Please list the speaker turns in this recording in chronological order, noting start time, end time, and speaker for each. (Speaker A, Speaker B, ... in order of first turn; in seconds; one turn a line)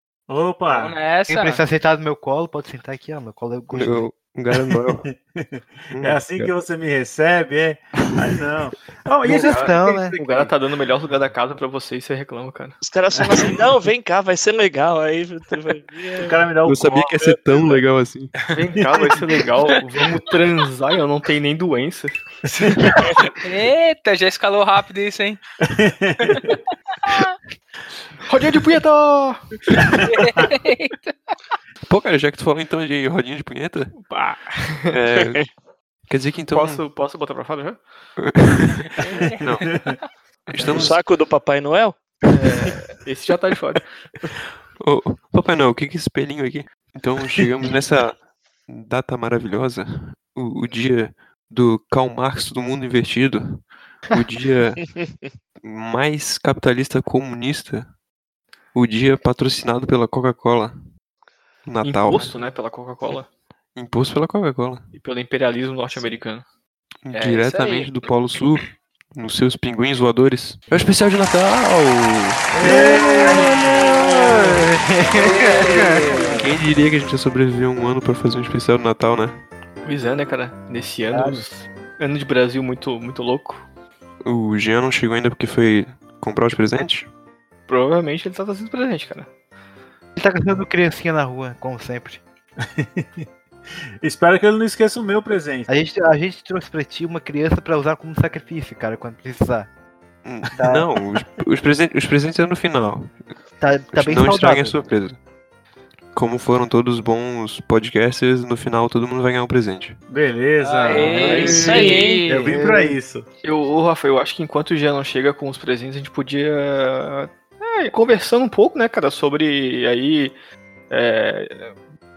Speaker A: 0.3-1.0
Speaker B: 0.7-1.6
Speaker C: 1.3-4.1
Speaker D: 3.7-5.0
Speaker A: 4.6-10.1
Speaker D: 5.9-6.5
Speaker C: 9.2-10.2
Speaker E: 9.4-12.8
Speaker F: 12.8-16.4
Speaker A: 13.2-13.6
Speaker A: 16.1-17.8
Speaker D: 16.6-18.3
Speaker E: 18.5-22.2
Speaker A: 18.9-19.3
Speaker B: 22.6-25.4
Speaker A: 22.7-23.0
Speaker A: 25.6-26.6
Speaker B: 26.3-26.5
Speaker B: 27.0-27.3
Speaker E: 28.2-29.6
Speaker A: 29.8-30.5
Speaker B: 30.1-31.1
Speaker D: 31.9-34.0
Speaker E: 34.0-34.9
Speaker D: 34.9-35.5
Speaker D: 36.1-36.8
Speaker E: 36.5-37.8
Speaker D: 38.2-38.9
Speaker B: 39.0-40.0
Speaker D: 39.4-39.8
Speaker D: 40.5-40.9
Speaker F: 40.6-42.0
Speaker E: 42.3-44.3
Speaker D: 44.8-54.9
Speaker D: 55.6-57.9
Speaker D: 58.7-60.7
Speaker D: 61.6-62.3
Speaker E: 61.8-63.3
Speaker D: 63.7-64.9
Speaker E: 64.9-66.4
Speaker D: 67.0-72.6
Speaker B: 67.1-67.9
Speaker A: 72.6-74.1
Speaker C: 72.6-73.8
Speaker C: 75.1-76.0
Speaker B: 75.2-76.5
Speaker D: 76.3-79.4
Speaker E: 79.8-83.6
Speaker C: 81.1-81.4
Speaker D: 84.2-87.1
Speaker E: 87.7-89.3
Speaker C: 90.2-92.2
Speaker A: 92.6-93.2
Speaker A: 94.0-95.7
Speaker C: 95.7-99.7
Speaker D: 100.2-103.2
Speaker C: 100.5-100.9
Speaker C: 103.6-104.8
Speaker D: 103.9-105.2
Speaker D: 106.1-110.0
Speaker A: 110.1-113.3
Speaker B: 110.6-112.2
Speaker E: 111.0-112.7
Speaker F: 111.2-112.3
Speaker C: 112.5-113.0
Speaker E: 113.4-120.3
Speaker E: 120.9-121.7